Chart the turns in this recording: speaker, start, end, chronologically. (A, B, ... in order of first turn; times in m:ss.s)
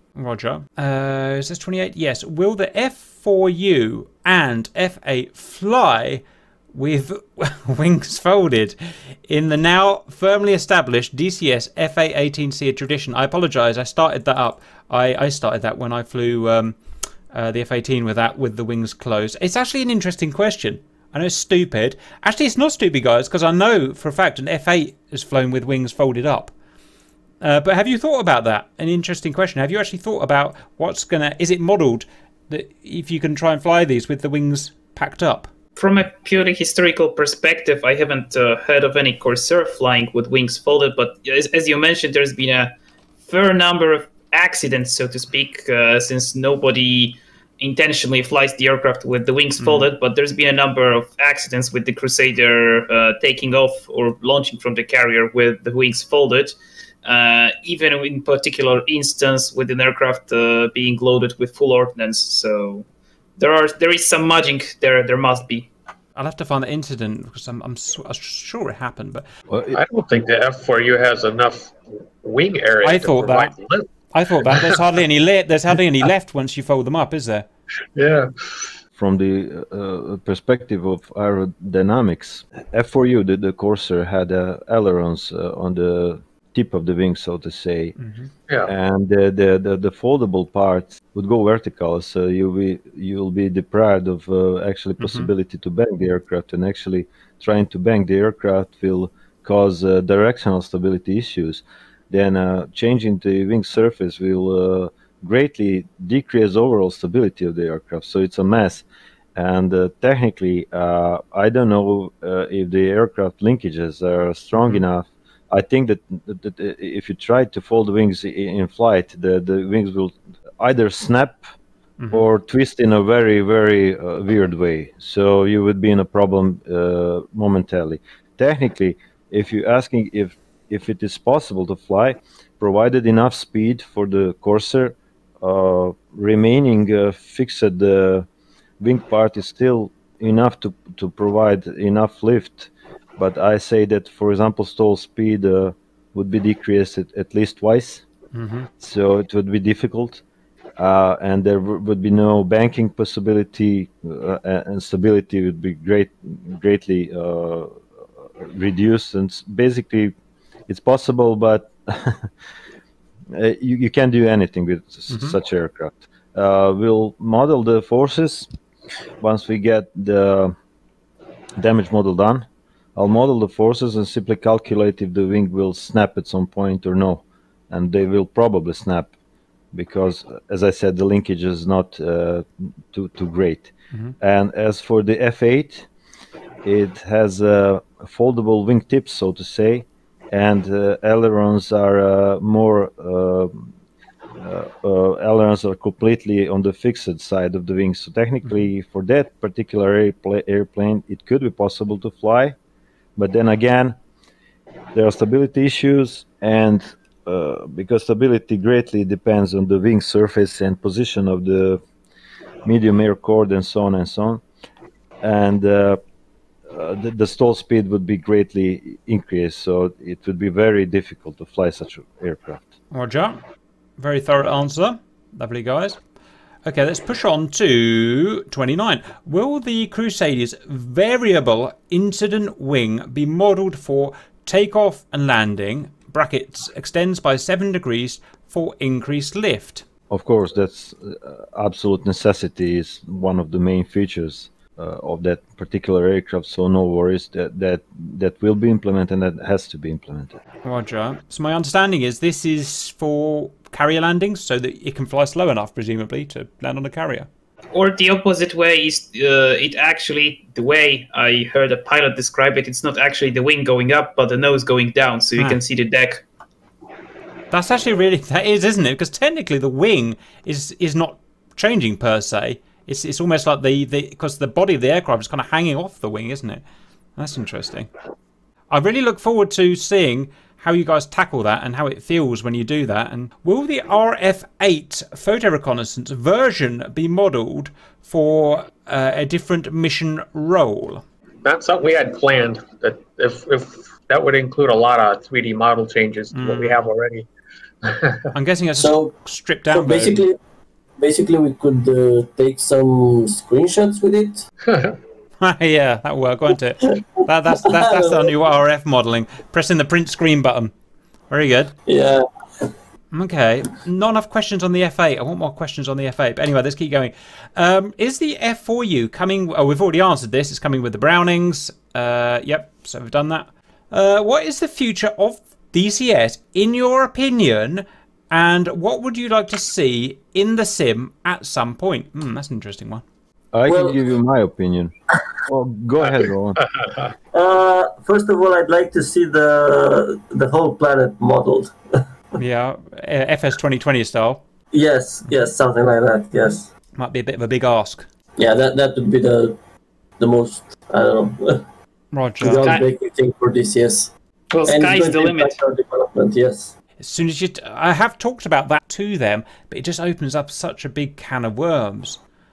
0:00.2-0:16.8 A
0:17.3-0:26.5 A
0:27.4-0:35.5 A
0:35.8-0:42.7 B
0:43.2-0:56.5 B
0:49.6-0:49.9 A
0:57.0-1:02.9 B
1:03.4-1:05.7 B
1:06.2-1:09.3 A
1:09.5-1:09.8 C
1:09.7-1:13.9 D
1:12.8-1:13.5 A
1:14.1-1:17.5 A
1:14.5-1:14.8 D
1:18.0-1:18.7 D
1:19.0-1:28.0 C
1:28.0-1:28.3 A
1:28.6-1:48.8 C
1:35.0-1:35.3 A
1:49.4-2:01.4 C
2:02.0-2:02.3 A
2:02.1-2:18.3 C
2:18.8-2:28.0 C
2:28.3-2:28.7 A
2:28.8-2:30.2 C
2:30.8-2:37.8 C
2:38.4-2:40.2 C
2:40.7-2:42.3 C
2:43.3-2:48.5 C
2:45.1-2:45.4 A
2:49.2-2:50.6 C
2:51.6-2:59.1 C
2:59.7-3:05.9 C
3:06.6-3:13.7 C
3:14.4-3:22.6 C
3:23.2-3:24.0 C
3:24.9-3:31.8 C
3:32.6-3:34.4 C
3:35.2-3:36.0 C
3:36.7-3:42.7 C
3:42.9-3:43.4 A
3:44.0-3:46.0 A
3:46.7-3:59.8 A
4:00.1-4:10.4 C
4:10.6-4:17.3 A
4:17.7-4:26.2 B
4:27.5-4:36.6 A
4:37.2-4:37.9 A
4:38.7-4:51.0 A
4:51.4-4:57.3 D
4:56.3-4:56.8 A
4:57.8-4:58.2 D
4:58.3-5:00.2 A
4:58.8-4:59.2 E
4:59.7-5:00.4 E
5:01.0-5:04.4 E
5:04.7-5:05.0 D
5:05.4-5:10.7 A
5:07.5-5:08.3 E
5:11.3-5:11.7 A
5:11.9-5:12.7 E
5:13.1-5:33.0 A
5:33.5-5:34.9 C
5:33.7-5:34.0 E
5:35.4-5:36.6 C
5:36.6-5:37.1 D
5:37.3-5:41.8 E
5:42.4-5:44.4 A
5:44.7-5:46.7 E
5:47.0-5:48.0 A
5:48.4-5:49.6 E
5:50.2-5:51.6 E
5:52.1-5:52.8 A
5:52.4-5:54.1 E
5:54.5-5:55.6 B
5:54.6-5:56.7 E
5:57.0-6:02.2 A